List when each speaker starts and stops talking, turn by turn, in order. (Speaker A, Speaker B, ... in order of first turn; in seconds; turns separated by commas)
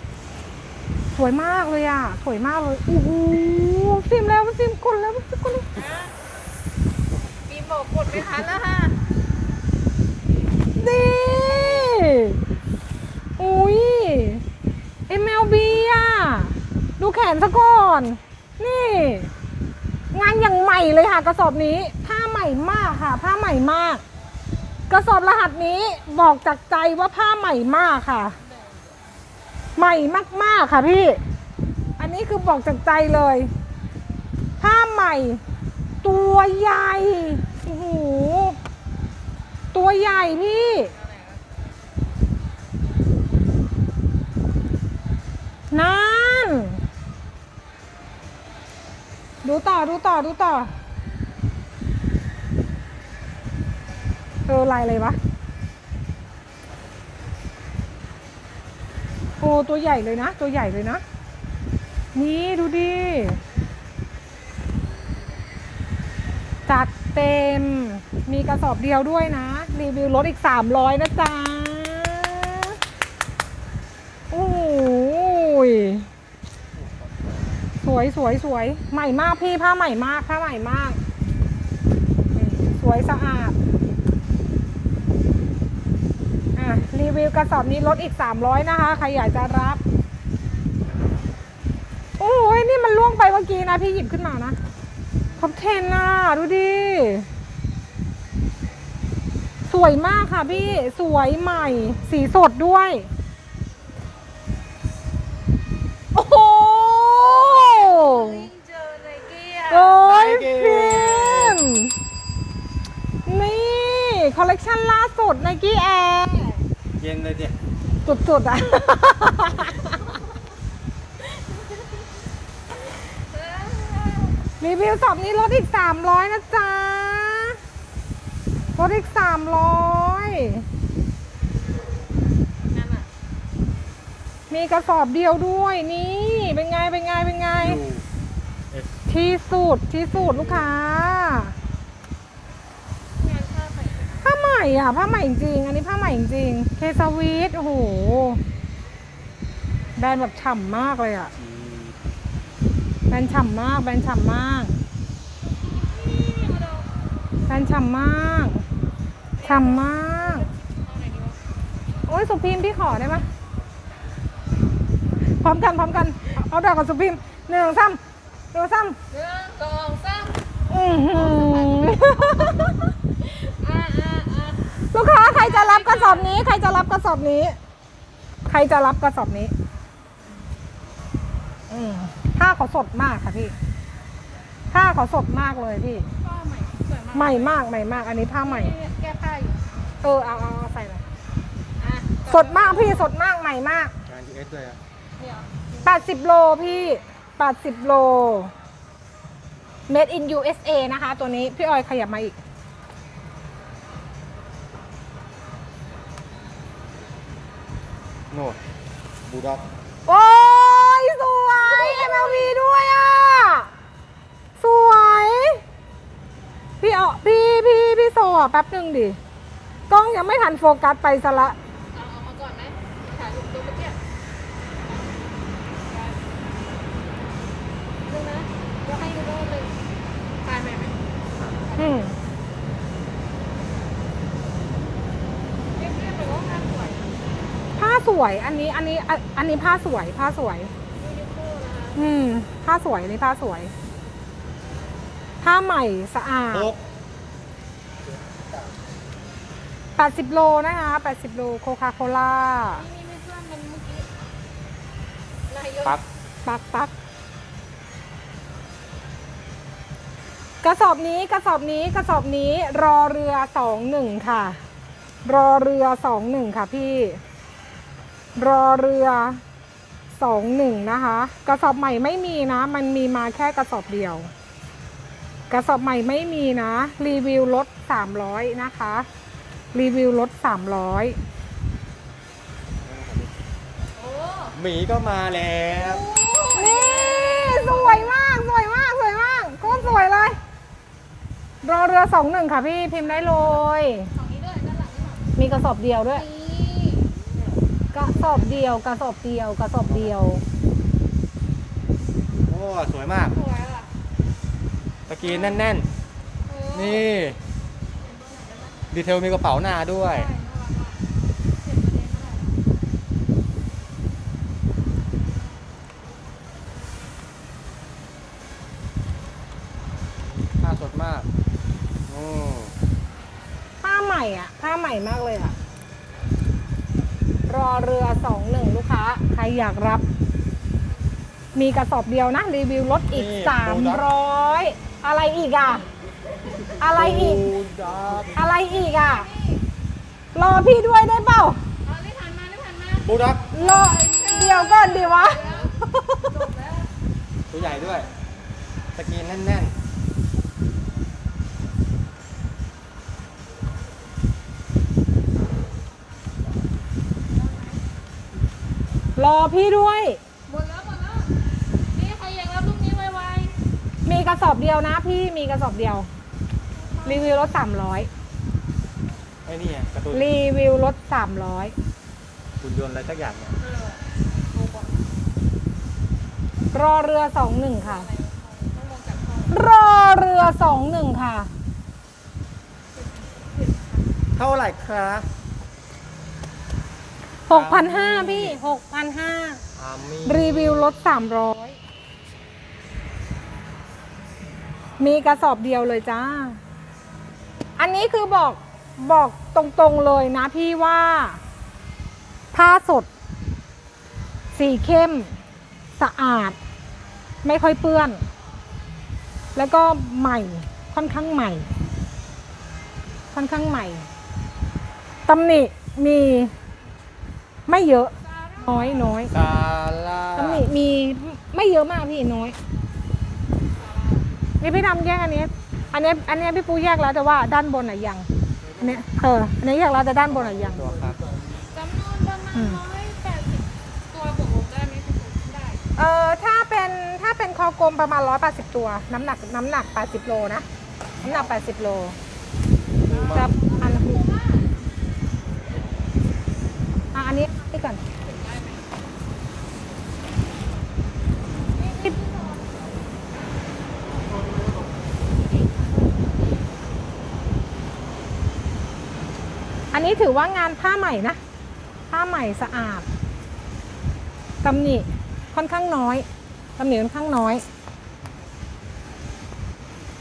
Speaker A: 1.1-5.7, Speaker B: 5.7-6.1, Speaker B: 7.5-9.0, Speaker A: 10.8-12.4, Speaker A: 13.4-14.4, Speaker A: 15.1-19.3, Speaker A: 20.1-24.0, Speaker A: 24.9-28.4, Speaker B: 28.4-29.0, Speaker A: 29.8-31.2, Speaker A: 32.0-33.5, Speaker A: 34.6-35.4, Speaker A: 36.0-38.6, Speaker A: 39.7-40.9, Speaker B: 40.1-41.5, Speaker A: 45.7-46.8, Speaker A: 49.4-50.7, Speaker A: 54.5-55.2, Speaker A: 59.4-61.0, Speaker A: 62.1-63.4, Speaker A: 66.7-72.8, Speaker A: 74.3-76.1, Speaker C: 76.8-77.6, Speaker A: 77.8-81.0, Speaker A: 82.3-83.6, Speaker A: 86.6-89.8, Speaker A: 92.2-94.6, Speaker A: 95.4-97.3, Speaker A: 99.7-103.1, Speaker A: 106.1-108.5, Speaker B: 107.2-110.0, Speaker A: 109.7-112.0, Speaker C: 110.0-111.6, Speaker A: 113.3-116.5, Speaker C: 117.0-117.6, Speaker A: 118.0-119.9, Speaker B: 121.2-121.9, Speaker B: 122.8-124.4, Speaker A: 124.6-127.6, Speaker A: 128.8-130.7, Speaker B: 132.7-133.1, Speaker A: 134.5-137.8, Speaker C: 137.5-138.1, Speaker A: 139.1-141.5, Speaker C: 140.2-140.7, Speaker B: 143.2-144.3, Speaker A: 144.2-148.4, Speaker A: 150.0-151.3, Speaker C: 151.4-152.0, Speaker A: 153.1-154.7, Speaker B: 155.4-156.9, Speaker A: 157.5-158.6, Speaker B: 159.4-161.4, Speaker A: 159.4-160.5, Speaker A: 162.1-163.2, Speaker A: 165.4-168.0, Speaker A: 168.5-169.0, Speaker B: 169.1-170.4, Speaker A: 170.7-172.7, Speaker B: 171.0-176.4, Speaker A: 174.9-177.6, Speaker A: 178.5-179.5, Speaker A: 181.7-183.6, Speaker A: 184.7-186.1, Speaker B: 186.2-187.6, Speaker A: 187.1-188.7, Speaker B: 188.4-189.6, Speaker A: 190.0-191.0, Speaker B: 191.8-193.1, Speaker A: 192.3-193.9, Speaker C: 194.1-194.8, Speaker B: 195.2-196.1, Speaker A: 195.8-198.5, Speaker A: 199.9-202.4, Speaker C: 208.3-208.6, Speaker C: 209.3-209.7, Speaker A: 210.1-213.7, Speaker B: 211.5-212.6, Speaker A: 214.6-215.6, Speaker A: 216.8-219.2, Speaker A: 219.9-221.6, Speaker B: 221.9-224.0, Speaker B: 225.8-226.3, Speaker B: 228.1-229.7, Speaker B: 230.4-231.0, Speaker B: 231.6-232.1, Speaker A: 231.8-232.2, Speaker B: 235.8-237.2, Speaker A: 237.8-240.7, Speaker B: 241.0-242.0, Speaker A: 242.0-243.7, Speaker A: 245.4-246.7, Speaker C: 246.5-246.8, Speaker A: 250.0-252.8, Speaker B: 252.7-254.1, Speaker B: 255.5-256.0, Speaker A: 256.4-256.9, Speaker A: 260.6-264.6, Speaker A: 265.2-267.2, Speaker A: 268.4-269.4, Speaker A: 270.1-274.3, Speaker A: 275.5-279.1, Speaker A: 279.7-281.2, Speaker C: 282.8-283.3, Speaker B: 283.9-284.6, Speaker C: 284.5-286.1, Speaker B: 285.7-288.1, Speaker A: 286.5-290.4, Speaker B: 289.6-290.1, Speaker A: 291.6-294.1, Speaker B: 293.0-295.3, Speaker A: 295.4-296.2, Speaker B: 296.1-298.6, Speaker A: 297.9-300.4, Speaker C: 302.5-303.4, Speaker B: 303.3-303.9, Speaker C: 305.1-305.9, Speaker B: 305.2-305.7, Speaker B: 306.5-307.1, Speaker C: 306.7-307.4, Speaker B: 308.0-308.8, Speaker C: 308.9-310.3, Speaker B: 310.0-311.0, Speaker B: 311.6-312.6, Speaker C: 320.4-321.3, Speaker C: 322.1-322.8, Speaker A: 323.8-325.6, Speaker A: 327.5-330.0, Speaker A: 331.6-335.9, Speaker C: 333.1-334.0, Speaker A: 336.8-337.5, Speaker C: 336.8-338.4, Speaker A: 338.3-339.3, Speaker B: 338.4-339.6, Speaker A: 340.4-341.6, Speaker B: 341.8-346.9, Speaker C: 343.0-343.5, Speaker A: 343.5-346.1, Speaker C: 347.5-348.1, Speaker B: 347.6-348.1, Speaker C: 348.9-349.8, Speaker B: 357.3-357.8, Speaker A: 359.2-360.2, Speaker B: 360.5-361.3, Speaker B: 361.9-363.6, Speaker A: 364.1-366.1, Speaker B: 366.8-367.4, Speaker A: 367.1-368.1, Speaker C: 369.4-370.4, Speaker A: 370.1-371.8, Speaker C: 372.6-373.6, Speaker B: 373.6-375.0, Speaker A: 376.7-378.1, Speaker B: 377.8-379.6, Speaker A: 379.5-381.5, Speaker B: 382.9-384.1, Speaker C: 384.4-385.3, Speaker C: 387.5-388.6, Speaker A: 387.5-389.6, Speaker C: 389.8-391.0, Speaker A: 390.2-391.8, Speaker A: 395.0-396.6, Speaker A: 397.8-401.4, Speaker A: 402.5-403.1, Speaker A: 404.5-405.3, Speaker A: 406.0-406.6, Speaker A: 407.4-408.2, Speaker A: 409.6-411.7, Speaker A: 413.3-414.1, Speaker A: 415.3-416.5, Speaker A: 417.7-419.4, Speaker B: 418.2-419.2, Speaker C: 419.3-420.7, Speaker A: 420.4-422.6, Speaker B: 423.7-424.3, Speaker A: 424.6-428.3, Speaker A: 428.8-430.9, Speaker C: 430.3-431.3, Speaker B: 431.6-435.8, Speaker A: 432.5-432.8, Speaker A: 436.0-440.6, Speaker C: 441.2-441.7, Speaker A: 441.2-442.2, Speaker C: 443.0-443.5, Speaker B: 443.0-444.9, Speaker A: 443.3-444.2, Speaker A: 447.1-448.0, Speaker B: 448.2-449.1, Speaker B: 451.8-452.9, Speaker A: 451.9-452.2, Speaker B: 454.3-456.3, Speaker A: 459.9-461.4, Speaker A: 462.1-463.1, Speaker A: 464.6-466.3, Speaker A: 466.8-467.6